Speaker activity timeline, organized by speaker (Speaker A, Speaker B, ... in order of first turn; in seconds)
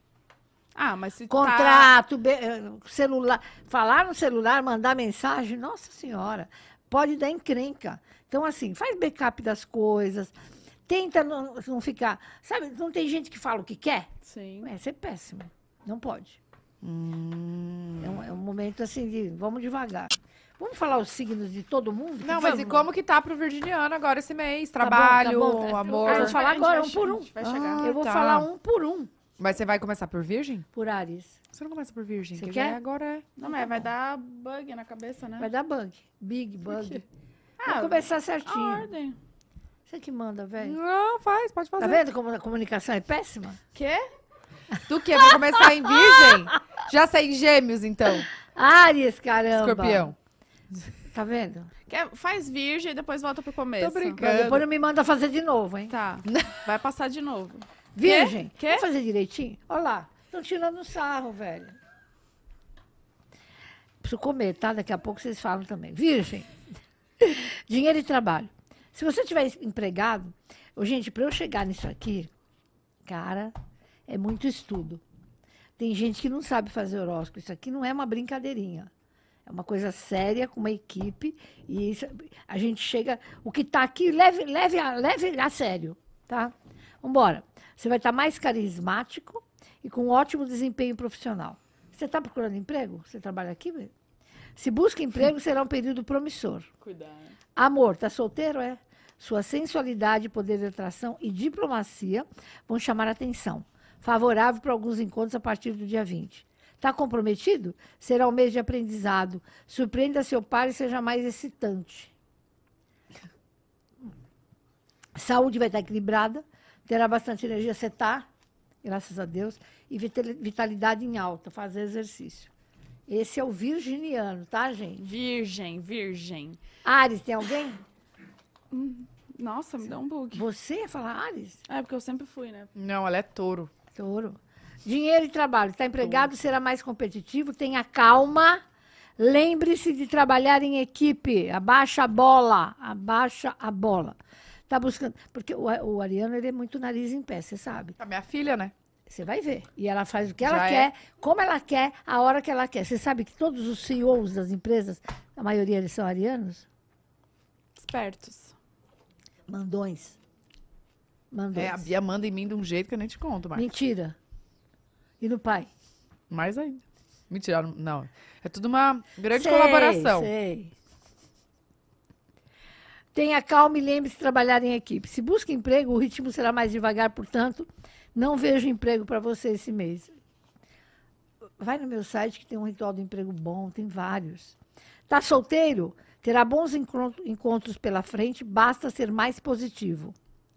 Speaker A: 0.8-1.9, 14.3-14.7, 26.0-27.9, 33.4-35.5, 36.7-37.0, 37.6-39.2, 43.7-44.0, 51.9-54.2, 55.9-58.9, 125.0-126.6, 128.7-130.4, 131.7-132.7, 157.8-158.6
Speaker B: 1.3-10.3, 10.9-14.1, 14.6-16.4, 18.0-22.9, 24.8-29.1, 30.7-31.4, 32.4-32.8, 35.4-37.0, 37.6-38.9, 39.9-40.8, 41.8-43.6, 48.5-50.1, 51.1-51.7, 54.2-55.9, 58.0-61.8, 64.0-66.5, 67.2-72.3, 73.1-73.5, 74.1-75.0, 75.8-78.9, 79.5-93.9, 94.6-96.7, 97.6-112.1, 115.2-118.3, 118.8-122.5, 123.1-125.0, 126.8-127.8, 130.3-131.6, 133.9-138.6, 139.2-144.2, 144.7-148.0, 149.1-156.7, 159.5-160.2, 161.3-161.9, 163.6-164.2, 165.2-165.7, 169.3-170.7, 173.1-180.1, 181.6-184.6, 185.1-190.2
Speaker C: 16.8-18.2, 22.2-26.4, 27.4-28.5, 29.4-30.7, 31.5-33.3, 40.6-42.0, 44.9-48.3, 49.5-50.1, 53.8-54.6, 56.3-56.6, 96.8-97.3, 132.8-133.7, 148.0-148.7, 150.4-150.9, 161.6-163.7, 166.3-170.3